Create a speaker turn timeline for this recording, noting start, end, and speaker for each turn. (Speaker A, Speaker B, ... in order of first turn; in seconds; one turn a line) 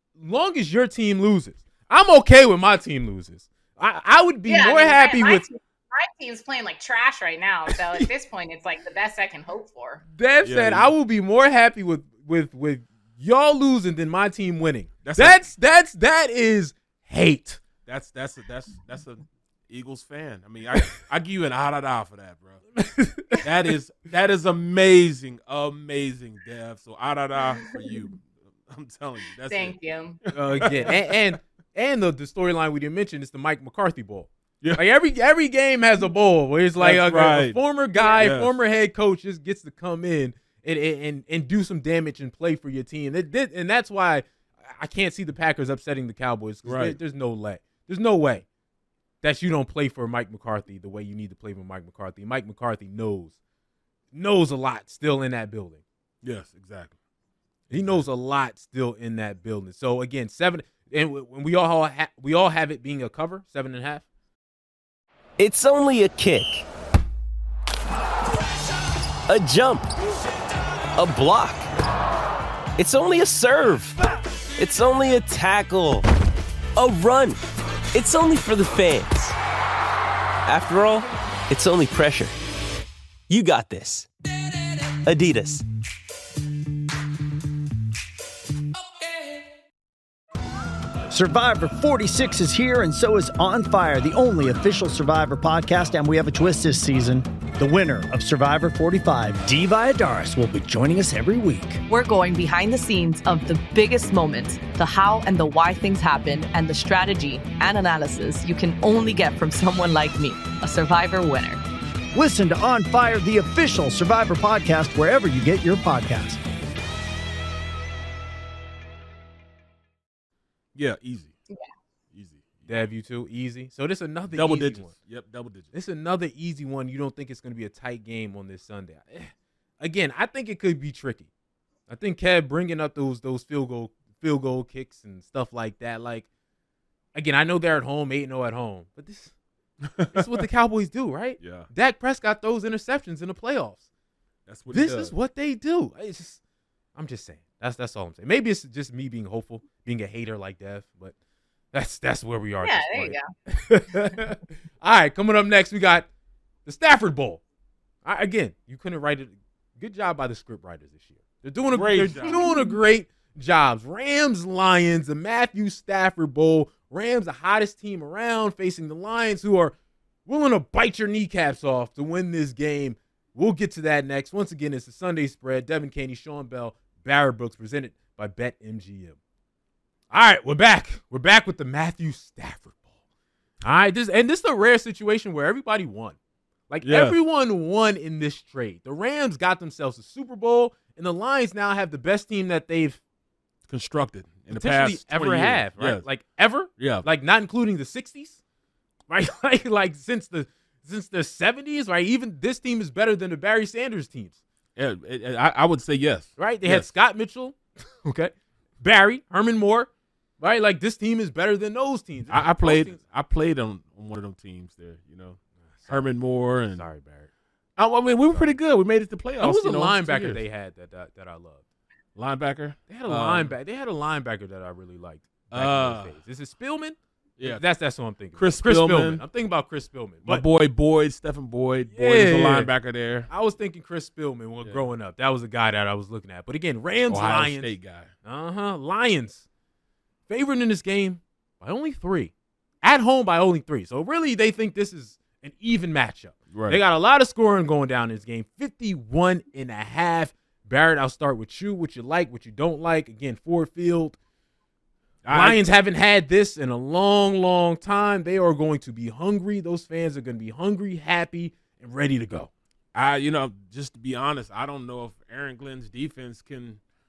Speaker A: 0.2-5.4
Speaker B: 4.5-10.0
Speaker A: 10.1-17.6
Speaker C: 10.4-10.9
Speaker C: 15.0-15.4
Speaker C: 17.9-22.6
Speaker A: 22.8-23.4
Speaker C: 23.4-30.9
Speaker B: 27.6-28.0
Speaker B: 29.5-30.2
Speaker A: 30.3-48.4
Speaker C: 36.8-38.5
Speaker C: 46.6-47.0
Speaker A: 49.2-53.4
Speaker A: 54.1-55.8
Speaker C: 56.2-57.0
Speaker C: 57.7-58.0
Speaker A: 57.7-64.0
Speaker D: 65.4-66.6
Speaker D: 69.3-69.9
Speaker D: 71.0-71.7
Speaker D: 72.8-74.0
Speaker D: 74.6-76.1
Speaker D: 76.8-77.4
Speaker D: 77.9-79.3
Speaker D: 80.5-82.3
Speaker D: 83.3-84.1
Speaker D: 85.0-85.6
Speaker E: 91.1-101.8
Speaker F: 101.9-111.6
Speaker E: 112.1-116.4
Speaker C: 120.7-121.3
Speaker C: 122.1-122.8
Speaker A: 122.7-124.9
Speaker C: 124.3-125.7
Speaker A: 125.7-131.3
Speaker A: 131.9-136.2
Speaker A: 137.1-139.3
Speaker C: 139.8-140.2
Speaker A: 140.1-143.8
Speaker C: 141.4-141.7
Speaker C: 144.5-145.1
Speaker A: 144.7-146.4
Speaker A: 146.9-151.1
Speaker A: 151.7-156.1
Speaker B: 152.6-153.2
Speaker A: 156.6-157.4
Speaker A: 158.0-169.7
Speaker C: 161.7-162.4
Speaker B: 162.3-162.7
Speaker A: 170.2-179.2
Speaker A: 180.1-182.8
Speaker A: 183.6-186.2
Speaker A: 186.7-193.0
Speaker C: 186.8-187.2
Speaker C: 193.7-196.0
Speaker A: 194.5-198.4
Speaker C: 196.8-197.1
Speaker A: 199.1-204.4
Speaker C: 204.8-206.9
Speaker A: 206.4-209.9
Speaker A: 210.4-213.0
Speaker C: 212.3-216.8
Speaker A: 215.8-216.1
Speaker A: 216.7-217.3
Speaker C: 217.8-220.4
Speaker A: 219.4-221.6
Speaker C: 222.1-223.5
Speaker A: 222.9-230.4
Speaker C: 225.5-226.1
Speaker C: 227.4-227.6
Speaker C: 228.3-229.2
Speaker C: 230.2-233.3
Speaker A: 231.9-232.7
Speaker A: 233.3-237.7
Speaker C: 237.1-238.1
Speaker A: 238.2-239.4
Speaker A: 240.3-254.2
Speaker C: 246.5-246.8
Speaker C: 255.2-255.7
Speaker A: 255.3-262.5
Speaker C: 262.9-266.8